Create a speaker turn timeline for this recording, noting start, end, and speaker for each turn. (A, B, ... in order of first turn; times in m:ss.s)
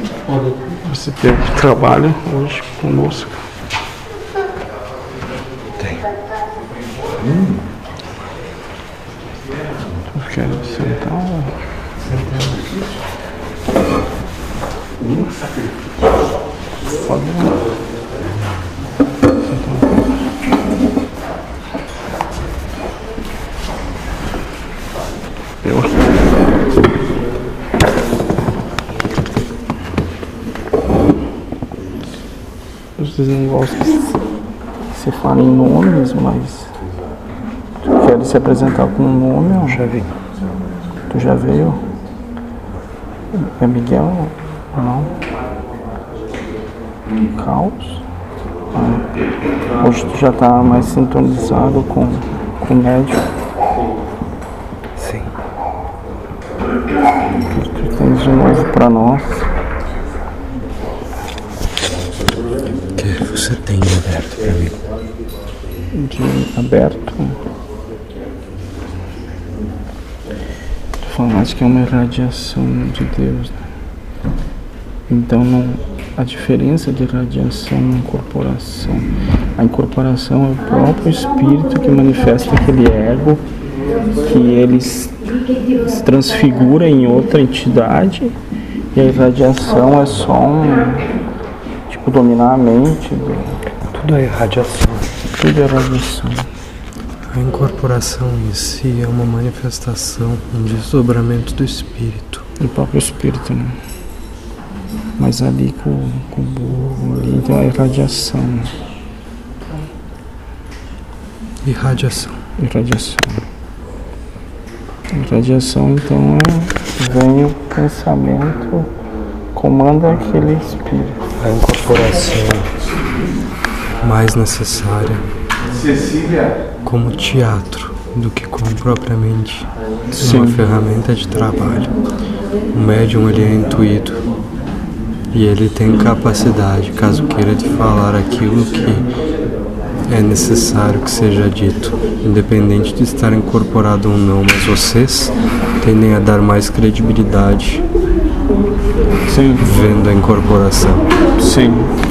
0:00.7-0:03.4 A
0:10.1-0:11.6 A
0:12.1-0:12.6 B
0:17.0-0:17.5 A
0:19.5-0:19.8 A
0:25.6-0:26.1 A
0:33.0-0:34.2 A
0:34.9-0:36.7 A
0:37.8-0:39.8 A
0:39.6-0:40.2 B
0:41.1-0:41.8 A
0:43.3-0:45.1 A
0:47.3-0:48.0 A
0:48.7-0:49.0 A
0:49.8-0:53.2 A
0:55.0-0:55.3 B
0:57.5-0:59.5 A
1:03.0-1:04.8 B
1:05.9-1:07.4 A
1:11.0-1:13.6 A
1:15.1-1:23.4 A
1:24.2-1:28.4 A
1:28.9-1:31.1 A
1:31.9-1:33.6 A
1:33.9-1:35.1 B
1:35.3-1:36.5 A
1:37.3-1:42.4 B
1:42.6-1:43.8 A
1:45.2-1:48.7 A
1:51.6-1:52.4 B
1:52.6-1:53.4 A
1:55.1-1:58.9 A
1:59.6-2:01.2 A
2:01.4-2:02.7 B
2:04.0-2:05.3 B
2:06.8-2:11.9 B
2:10.2-2:10.6 A
2:12.7-2:14.2 B
2:15.3-2:19.0 B
2:20.1-2:27.8 B
2:29.3-2:29.7 A
2:29.6-2:31.0 B
2:31.4-2:31.9 A